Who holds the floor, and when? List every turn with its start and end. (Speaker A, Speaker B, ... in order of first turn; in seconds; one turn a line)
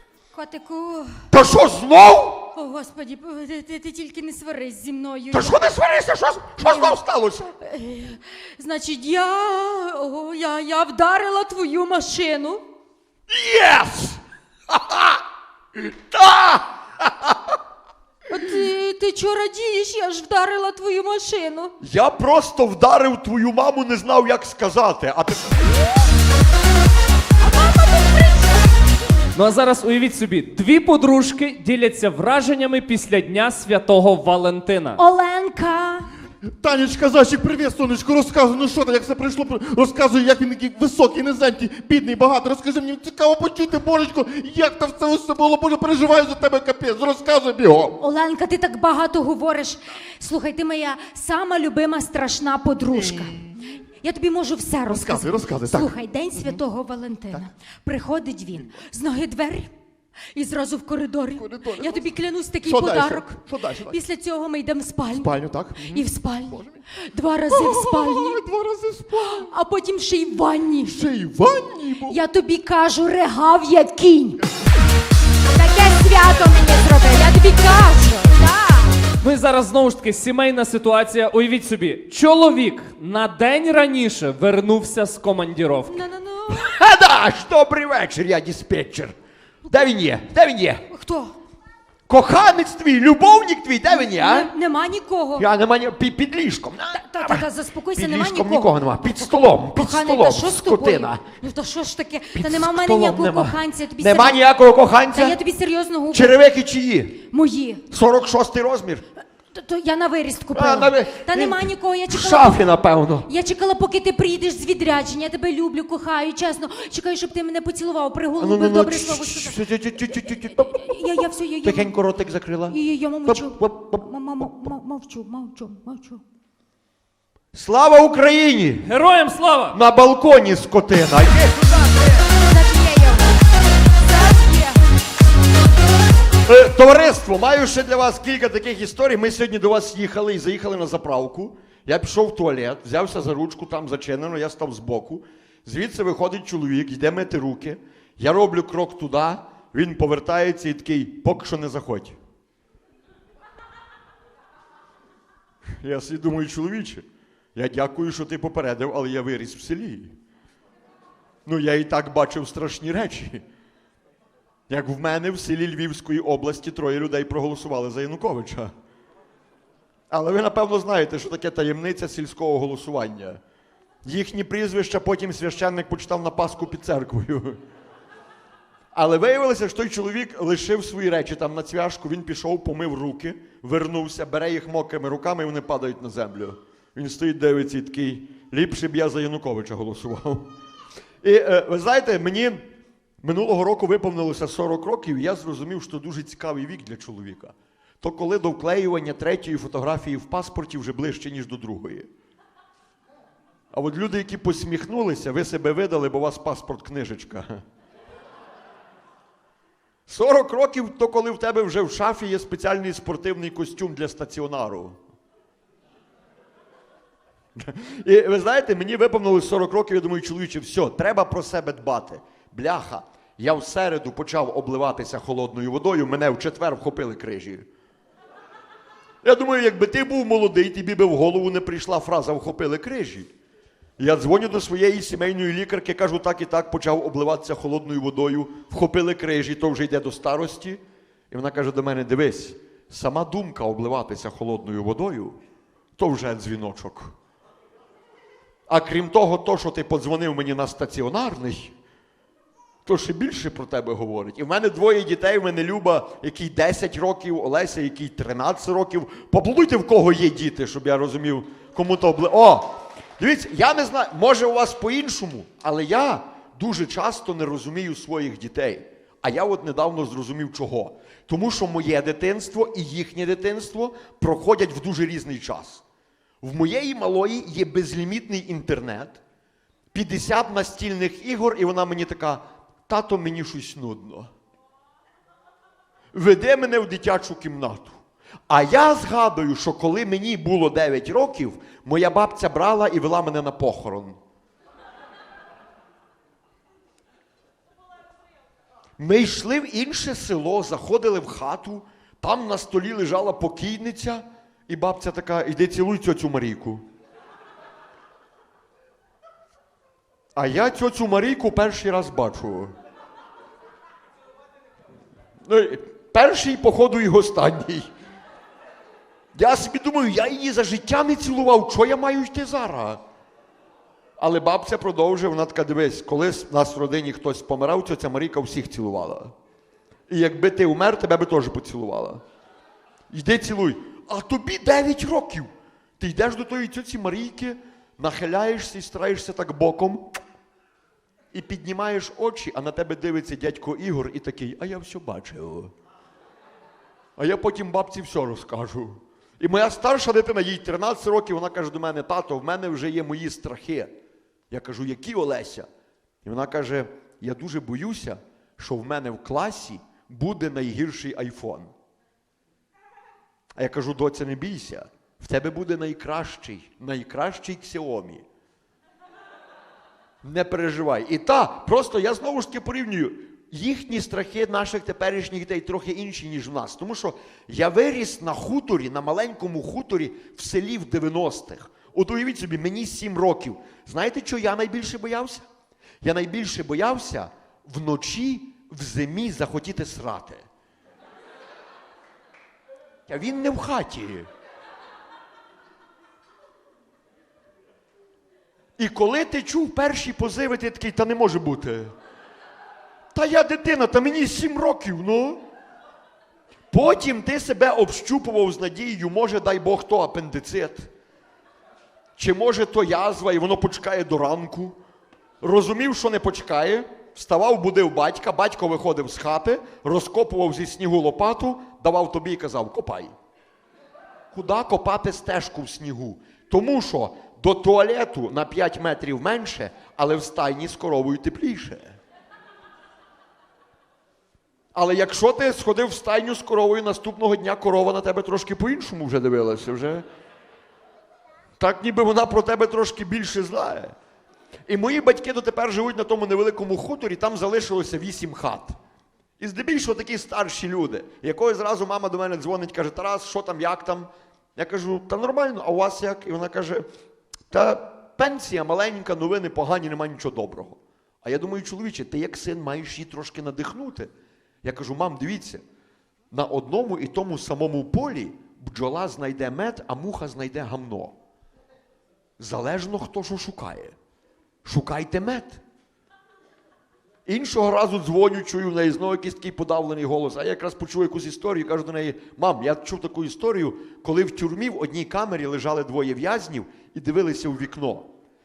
Speaker A: 0.3-1.2
Speaker B: 1.3-2.5
Speaker A: 2.5-5.8
Speaker B: 5.3-7.5
Speaker A: 6.6-12.6
Speaker B: 13.3-15.2
Speaker B: 15.8-17.6
Speaker A: 18.3-21.7
Speaker B: 21.8-25.9
Speaker A: 27.4-28.6
Speaker C: 29.4-35.0
Speaker A: 35.0-36.1
Speaker D: 36.5-48.0
Speaker A: 48.0-53.4
Speaker D: 52.9-53.6
Speaker A: 54.0-59.7
Speaker D: 54.9-56.6
Speaker A: 60.3-68.4
Speaker D: 61.4-62.1
Speaker D: 62.6-64.0
Speaker D: 65.1-66.9
Speaker D: 67.5-69.5
Speaker A: 69.3-71.0
Speaker D: 70.8-72.2
Speaker A: 72.1-74.5
Speaker A: 75.5-79.0
Speaker C: 79.2-86.0
Speaker A: 85.9-86.7
Speaker B: 86.5-89.2
Speaker A: 89.7-89.9
Speaker B: 89.7-90.8
Speaker A: 90.9-91.3
Speaker B: 92.1-94.5
Speaker A: 93.9-95.5
Speaker B: 95.4-101.4
Speaker A: 96.9-104.5
Speaker B: 102.3-105.4
Speaker A: 105.1-106.4
Speaker B: 106.1-107.2
Speaker A: 107.2-107.8
Speaker B: 107.9-109.0
Speaker A: 109.5-112.7
Speaker B: 110.5-113.3
Speaker A: 113.2-121.9
Speaker B: 118.4-120.9
Speaker B: 121.6-124.7
Speaker A: 122.7-126.2
Speaker B: 127.5-128.9
Speaker C: 128.8-129.8
Speaker B: 129.7-132.3
Speaker A: 132.4-133.4
Speaker A: 134.0-134.8
Speaker B: 136.4-152.2
Speaker B: 155.8-160.2
Speaker B: 161.5-163.4
Speaker B: 164.7-168.7
Speaker B: 170.1-173.4
Speaker B: 174.1-177.6
Speaker B: 178.9-190.5
Speaker B: 191.2-192.6
Speaker B: 193.2-202.1
Speaker B: 203.7-207.6
Speaker B: 210.1-215.0
Speaker B: 217.6-227.7
Speaker B: 229.2-233.3
Speaker B: 234.0-245.4
Speaker B: 246.0-247.1
Speaker B: 248.7-251.7
Speaker B: 252.9-275.8
Speaker B: 276.4-279.2
Speaker B: 279.9-284.3
Speaker B: 286.1-288.0
Speaker B: 288.5-294.2
Speaker B: 299.0-306.8
Speaker B: 310.4-312.7
Speaker B: 315.5-317.9
Speaker B: 319.4-323.0
Speaker B: 324.2-329.3
Speaker B: 330.1-332.2
Speaker B: 333.1-335.5
Speaker B: 336.0-340.1
Speaker B: 341.3-345.7
Speaker B: 347.2-353.9
Speaker B: 354.5-355.7
Speaker B: 356.2-361.7
Speaker B: 363.6-368.2
Speaker B: 370.2-385.5
Speaker B: 386.0-390.4
Speaker B: 393.1-394.3
Speaker B: 398.8-401.9
Speaker B: 403.1-405.4
Speaker B: 406.7-410.9
Speaker B: 412.2-414.8
Speaker B: 415.4-423.1
Speaker B: 424.3-432.0
Speaker B: 434.8-440.1
Speaker B: 441.6-443.9
Speaker B: 444.7-448.8
Speaker B: 449.4-456.9
Speaker B: 457.5-464.1
Speaker B: 464.6-465.6
Speaker B: 466.3-471.1
Speaker B: 472.4-473.9
Speaker B: 474.6-475.6
Speaker B: 477.3-488.1